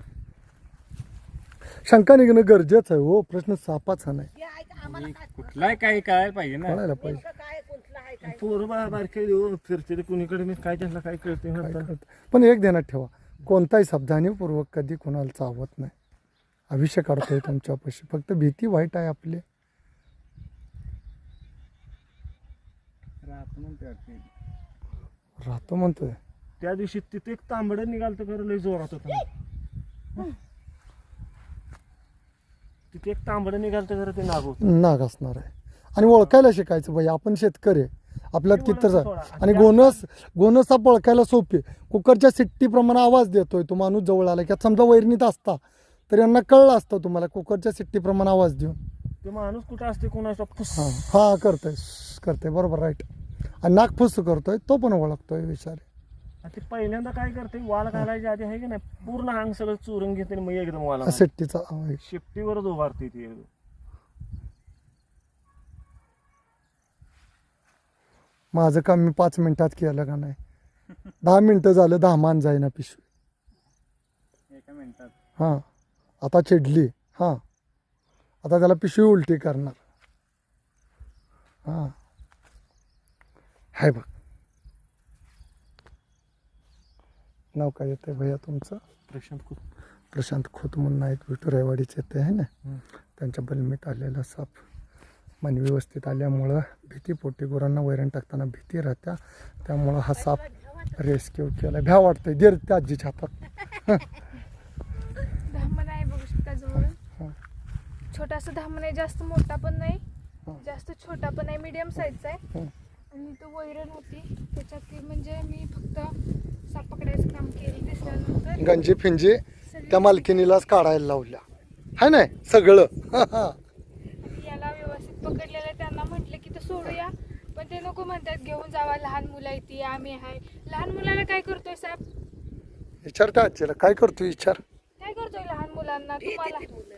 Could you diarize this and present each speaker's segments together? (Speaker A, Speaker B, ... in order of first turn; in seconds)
Speaker A: 1.8-4.3, 6.6-7.2, 11.6-15.9, 16.7-19.4, 25.4-26.2, 34.6-48.8, 50.7-53.1, 53.6-55.8, 61.0-62.0, 68.5-70.4, 71.2-73.0, 75.4-75.6, 76.2-77.4, 78.4-79.8, 81.7-81.9, 83.7-84.1, 87.5-88.8, 90.1-92.5, 93.2-94.5, 95.4-104.1, 118.5-121.4, 122.0-123.6, 133.0-134.6
Speaker B: 4.4-6.1, 6.9-8.5
Speaker C: 4.8-6.8, 23.2-24.2, 74.5-75.1
Speaker D: 8.2-11.9, 26.6-29.3, 32.9-34.6, 36.0-36.4, 38.5-40.0, 49.2-50.9, 56.4-61.3, 62.0-63.5, 89.1-89.6
Speaker E: 105.3-107.0, 108.1-110.0, 110.5-112.4, 113.1-116.2, 116.7-118.8, 119.7-120.5, 124.2-132.0, 135.0-136.9